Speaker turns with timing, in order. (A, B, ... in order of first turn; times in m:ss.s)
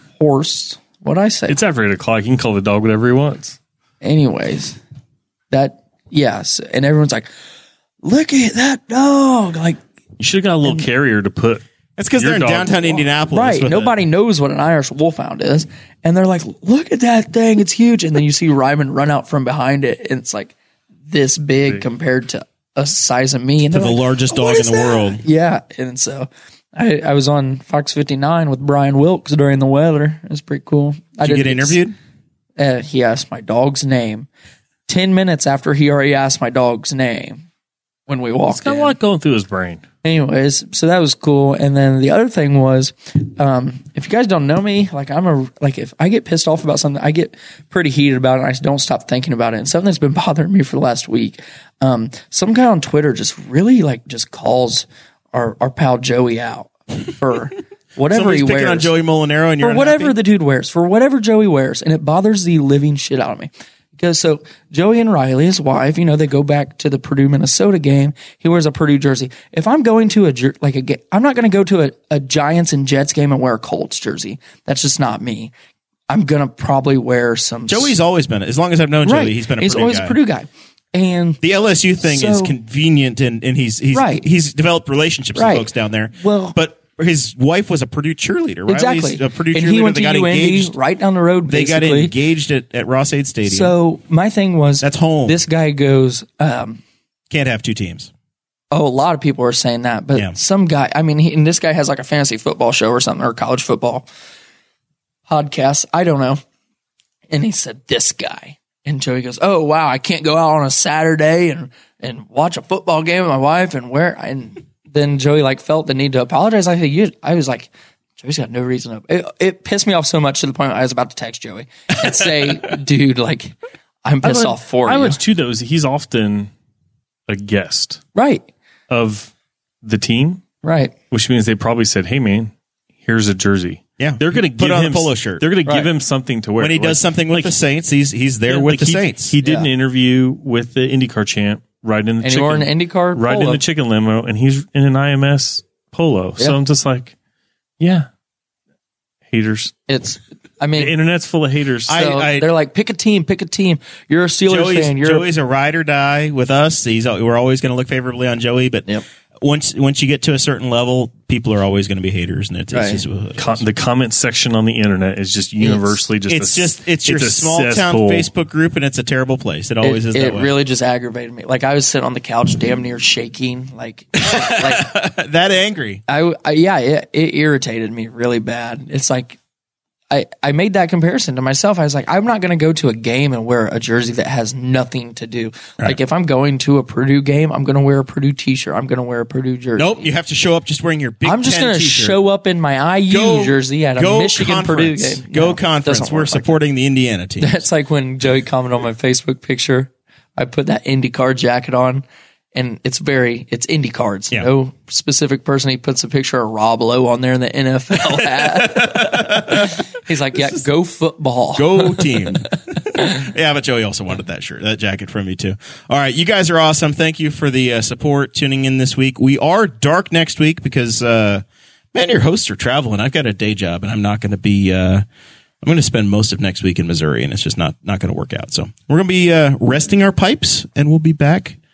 0:00.2-0:01.6 A
0:01.5-0:03.6 B
0:04.0-0:04.8 A
0:05.5-0:07.3 A
0:08.0-0:09.8 A
0:10.2-0:11.6 B
0:12.0-0:14.0 C
0:12.2-0:13.0 B
0:13.3-0:20.6 A
0:21.1-0:31.8 A
0:23.7-0:25.2 C
0:31.2-0:32.0 C
0:32.6-0:34.3 A
0:34.9-0:37.5 A
0:38.1-0:39.0 A
0:38.5-0:39.8 B
0:40.0-0:58.9 A
0:58.1-1:00.2 C
0:59.6-1:15.5 A
1:16.1-1:18.0 A
1:17.7-1:20.2 C
1:19.0-1:21.4 A
1:21.4-1:30.7 C
1:22.0-1:22.6 A
1:23.9-1:24.3 A
1:25.4-1:26.6 A
1:28.7-1:32.1 A
1:31.5-1:33.8 C
1:33.4-1:36.8 A
1:34.8-1:35.4 C
1:37.3-1:38.1 C
1:38.7-1:44.1 A
1:45.3-1:46.4 A
1:47.3-2:05.2 A
2:04.2-2:06.5 B
2:07.3-2:08.0 B
2:08.2-2:08.5 A
2:08.9-2:09.3 B
2:09.8-2:10.4 B
2:10.6-2:10.9 A
2:11.1-2:12.5 B
2:13.0-2:17.6 B
2:14.0-2:15.4 C
2:16.6-2:19.4 C
2:18.5-2:27.1 B
2:19.4-2:19.7 A
2:22.2-2:23.6 A
2:27.8-2:28.1 B
2:29.3-2:29.8 B
2:29.9-2:31.0 A
2:30.8-2:32.0 B
2:31.9-2:32.5 C
2:31.9-2:35.3 A
2:34.5-2:38.9 C
2:39.4-2:43.6 C
2:42.7-2:43.0 A
2:43.4-2:48.3 B
2:45.6-2:46.0 A
2:46.3-2:50.5 C
2:49.8-2:54.9 A
2:54.2-2:56.0 C
2:56.1-2:59.4 A
3:00.1-3:10.1 A
3:09.8-3:12.2 C
3:11.2-3:16.6 A
3:13.1-3:17.6 C
3:17.4-3:32.4 A
3:28.2-3:29.8 C
3:31.6-3:45.0 C
3:45.6-3:51.6 C